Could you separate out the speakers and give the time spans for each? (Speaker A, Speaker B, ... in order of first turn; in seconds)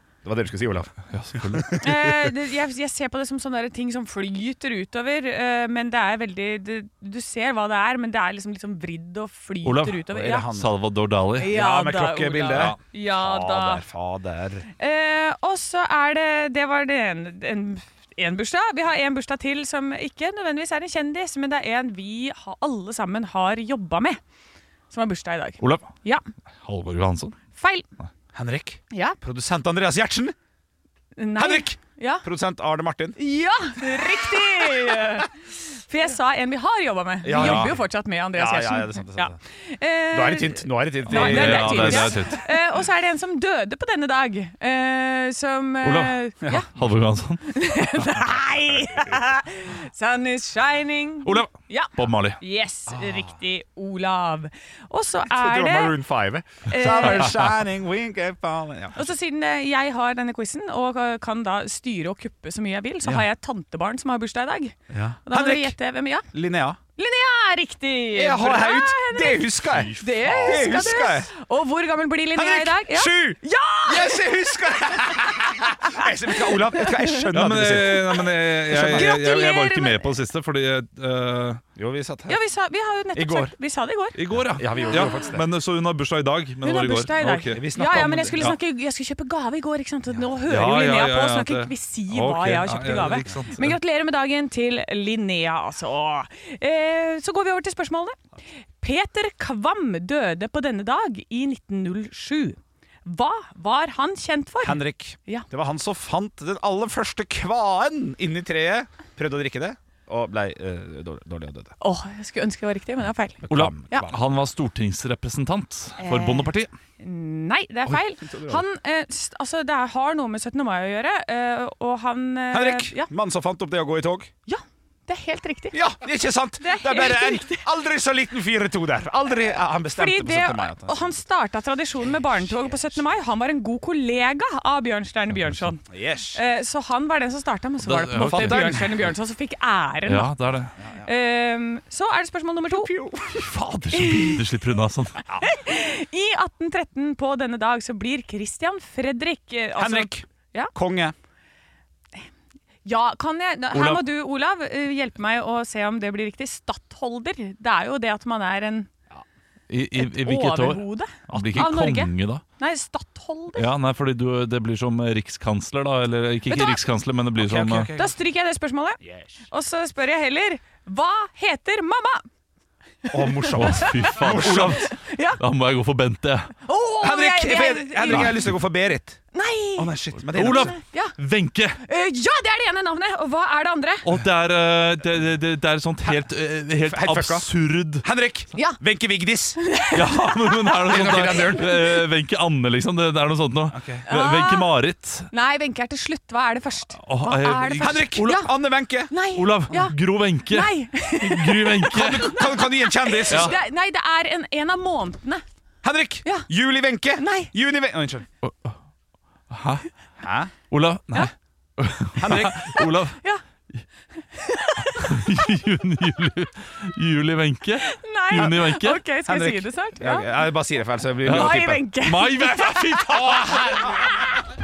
Speaker A: 0.2-2.1, 10.1-10.7, 11.4-14.7, 28.3-30.4, 31.4-33.2, 37.2-39.4, 40.1-42.4, 52.9-53.3, 55.2-59.1, 64.9-65.8, 66.3-66.8, 68.1-71.3, 72.3-79.2, 81.8-82.4, 83.2-83.5, 84.4-85.5, 87.5-88.5, 104.6-111.8, 113.4-114.2, 118.0-118.6, 122.5-124.3, 125.7-131.2, 132.4-133.0, 135.9-136.4, 138.2-139.1, 140.8-141.1, 142.7-143.4, 149.8-151.2, 167.4-168.2, 169.0-169.4, 173.1-174.9, 177.0-179.2, 179.8-180.8, 186.8-189.6, 190.8-191.8, 193.7-194.1, 197.8-199.1, 201.9-203.6, 205.8-208.3, 210.2-210.5, 212.2-212.8, 219.2-221.8, 223.5-223.7
Speaker B: 1.1-1.8, 9.6-11.5, 12.5-12.8, 25.6-25.9, 26.6-27.4, 37.3-37.8, 41.1-42.4, 45.8-46.2, 46.7-47.6, 51.2-52.4, 69.7-70.8, 77.3-81.6, 84.2-87.6, 90.5-93.8, 113.5-116.7, 135.3-135.7, 137.8-139.1, 140.1-140.8, 143.3-145.2, 153.7-154.0, 159.7-162.4, 163.6-167.9, 173.6-176.5, 178.1-178.4, 180.3-181.8, 184.0-188.1, 189.9-195.3, 197.0-198.5, 199.3-202.5, 203.3-203.6, 208.4-208.8, 209.5-209.9, 210.7-213.2, 215.0-219.0, 221.2-224.2
Speaker C: 1.8-10.5, 11.4-13.8, 14.8-24.2, 24.9-26.2, 27.6-27.9, 28.9-29.2, 31.2-32.3, 33.2-46.7, 47.5-56.0, 56.7-57.5, 59.0-64.8, 65.3-66.3, 67.0-74.2, 76.5-76.9, 78.7-80.1, 82.3-84.2, 86.6-98.2, 98.8-105.5, 111.8-114.1, 116.0-116.5, 117.0-123.1, 124.5-125.8, 126.6-127.6, 130.0-135.8, 136.3-140.3, 141.0-142.9, 143.9-144.4, 145.4-150.7, 152.8-158.9, 160.0-163.7, 166.5-166.8, 167.9-172.2, 173.1-175.4, 176.7-178.4, 179.3-181.2, 181.8-184.1, 189.6-190.8, 194.1-194.7, 195.3-198.5, 199.1-200.0, 200.5-205.4, 207.2-207.5, 214.3-215.2, 217.9-220.3, 221.3-223.4